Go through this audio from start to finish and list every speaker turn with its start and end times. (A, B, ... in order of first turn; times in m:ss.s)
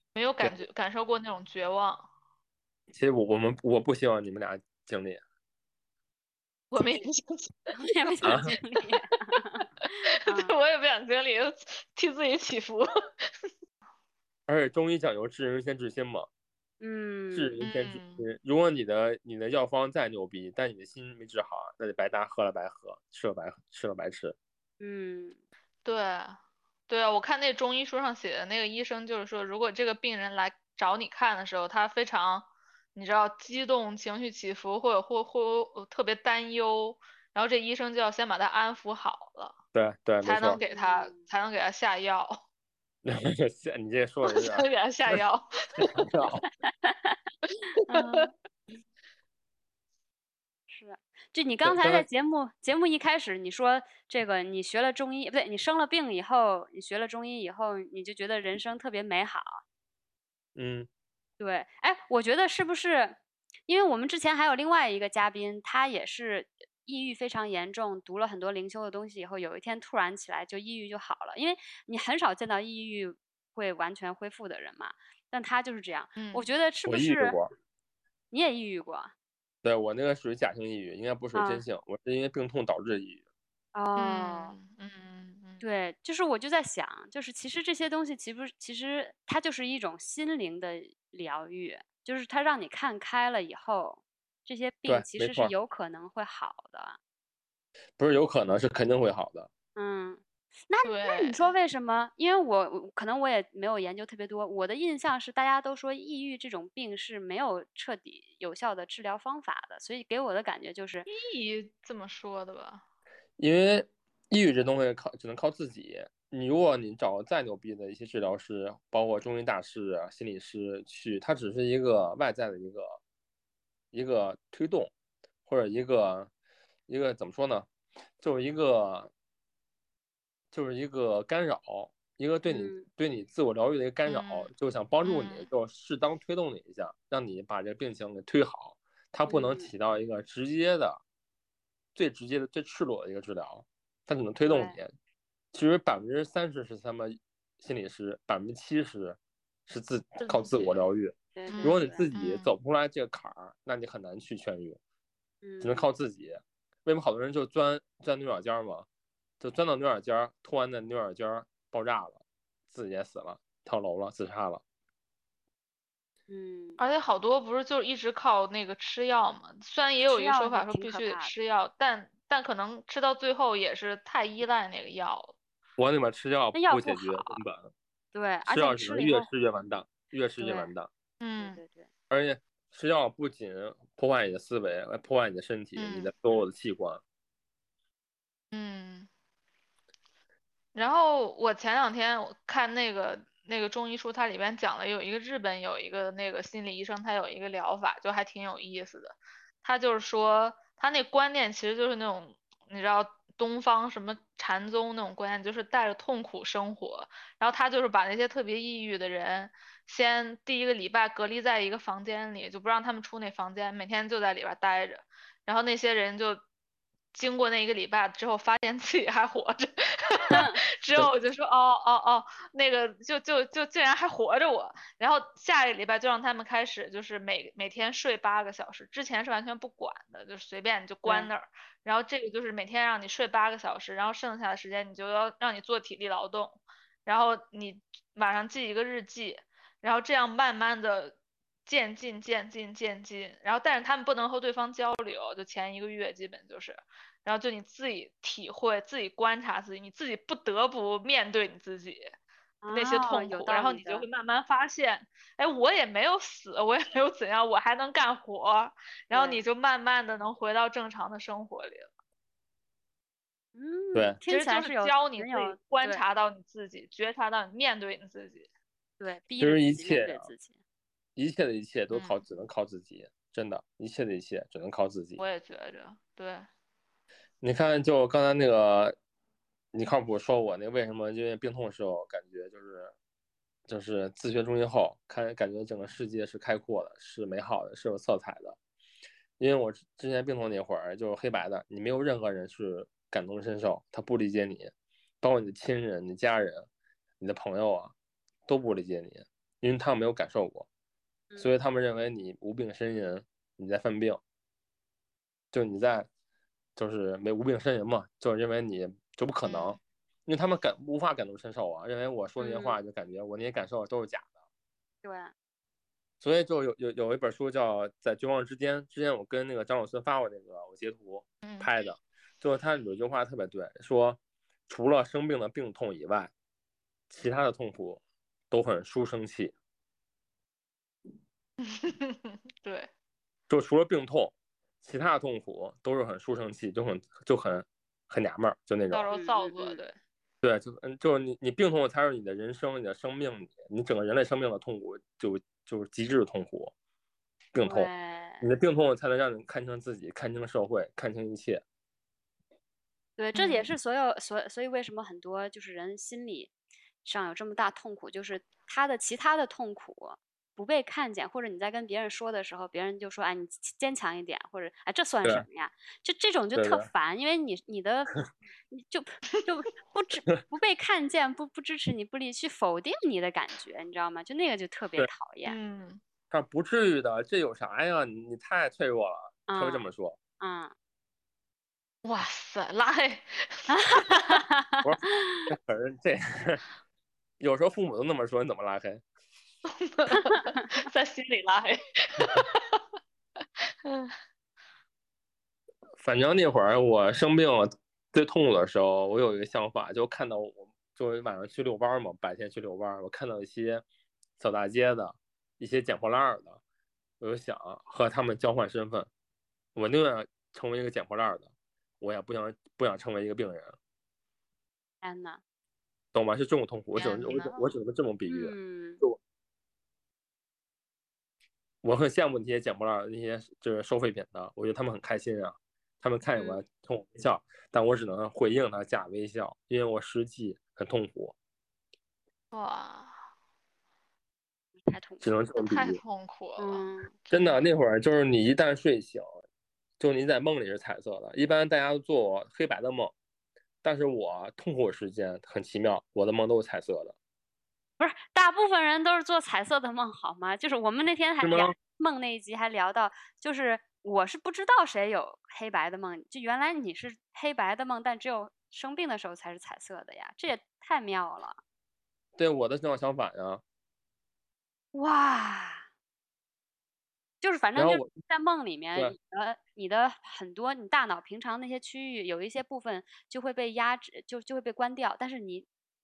0:00.1-0:02.0 A
0:02.9-0:05.2 B
0:06.7-0:07.7 A
0:06.8-0:07.0 C
0:07.8-0:10.6 C
0:08.2-0:08.5 B
0:10.3-0:12.8 A
0:14.5-0:16.3 B
0:16.8-0:17.6 C
0:17.3-0:24.4 B
0:17.6-0:18.2 A
0:24.8-0:25.4 C
0:25.8-0:39.6 A
0:39.7-0:40.6 B
0:40.2-0:42.4 A
0:40.5-0:41.3 C
0:43.0-0:45.2 B
0:44.3-0:46.0 A
0:45.8-0:46.4 B
0:46.8-0:47.2 C
0:47.8-0:48.3 C
0:47.9-0:48.2 A
0:50.7-0:59.6 C
0:51.6-0:52.0 B
1:00.6-1:00.9 B
1:01.4-1:17.4 C
1:16.2-1:16.5 A
1:16.8-1:17.5 B
1:18.3-1:19.1 C
1:19.6-1:23.2 B
1:21.3-1:21.6 C
1:23.7-1:24.6 C
1:24.0-1:25.6 A
1:25.6-1:37.0 C
1:34.9-1:35.5 B
1:38.0-1:39.5 B
1:39.8-1:51.1 C
1:40.8-1:41.5 A
1:51.1-1:52.8 A
1:53.4-2:03.0 B
2:03.9-2:04.9 B
2:05.4-2:06.3 B
2:06.9-2:07.7 B
2:08.2-2:09.1 B
2:10.5-2:21.0 B
2:12.5-2:12.9 C
2:15.0-2:15.5 A
2:19.3-2:19.7 C
2:21.9-2:24.9 B
2:24.5-2:24.8 C
2:25.5-2:34.8 B
2:30.2-2:30.6 A
2:31.3-2:32.0 C
2:31.5-2:32.5 A
2:35.4-2:35.9 C
2:35.6-2:38.9 B
2:39.4-2:44.6 B
2:46.3-2:46.8 C
2:46.8-2:55.4 A
2:50.0-2:51.3 C
2:55.8-2:57.7 B
2:56.5-2:57.4 C
2:58.1-2:59.3 C
2:58.4-3:00.9 B
3:00.4-3:00.7 C
3:01.2-3:01.6 A
3:01.4-3:01.9 C
3:02.1-3:07.0 B
3:05.8-3:06.1 A
3:08.5-3:09.1 A
3:10.7-3:36.4 A
3:37.1-4:12.1 A
3:40.3-3:40.6 C
3:51.0-3:51.3 C
4:12.6-4:14.0 C
4:12.7-4:21.9 A
4:19.1-4:19.4 C
4:23.5-4:26.0 C
4:23.9-4:24.2 B
4:24.3-4:28.5 A
4:29.0-4:30.6 C
4:29.4-4:30.3 B
4:31.2-4:35.2 B
4:31.9-4:32.2 A
4:35.2-4:36.5 A
4:37.4-4:39.0 B
4:39.7-4:42.9 B
4:43.7-4:48.6 B
4:49.4-4:56.7 B
4:57.2-4:57.9 B
4:58.5-5:00.7 B
5:01.4-5:04.2 B
5:05.5-5:06.1 B
5:06.8-5:14.3 B
5:09.4-5:09.8 C
5:12.4-5:12.8 C
5:15.0-5:15.3 C
5:16.2-5:26.3 B
5:21.4-5:21.7 A
5:27.1-5:29.5 B
5:31.6-5:32.9 A
5:33.5-5:39.1 B
5:38.9-5:40.0 A
5:39.1-5:39.8 C
5:40.4-5:46.7 B
5:47.5-5:47.9 B
5:47.6-5:48.5 C
5:48.4-5:51.6 B
5:53.2-5:56.5 C
5:57.0-6:08.1 C
6:06.5-6:06.9 B
6:08.7-6:15.6 C
6:15.4-6:16.0 A
6:16.3-6:20.2 B
6:19.5-6:19.9 C
6:20.4-6:20.7 C
6:22.0-6:24.4 A
6:23.7-6:25.5 C
6:24.8-6:26.6 B
6:27.4-6:29.0 B
6:29.7-6:32.8 A
6:33.8-6:34.1 A
6:36.0-6:43.8 B
6:44.4-6:46.6 B
6:47.2-6:49.1 B
6:49.7-6:53.8 B
6:55.0-6:55.4 C
6:56.1-6:59.2 B
6:56.9-6:57.6 A
6:58.2-6:59.0 C
7:01.8-7:11.3 B
7:12.5-7:13.1 A
7:14.8-7:15.3 C
7:15.2-7:16.0 B
7:15.6-7:17.6 A
7:16.6-7:17.1 C
7:17.3-7:19.3 B
7:20.0-7:23.1 B
7:23.8-7:27.1 B
7:28.0-7:41.6 C
7:31.4-7:31.8 B
7:42.4-7:43.6 B
7:44.9-7:45.8 C
7:47.4-7:55.6 C
7:47.8-7:48.1 B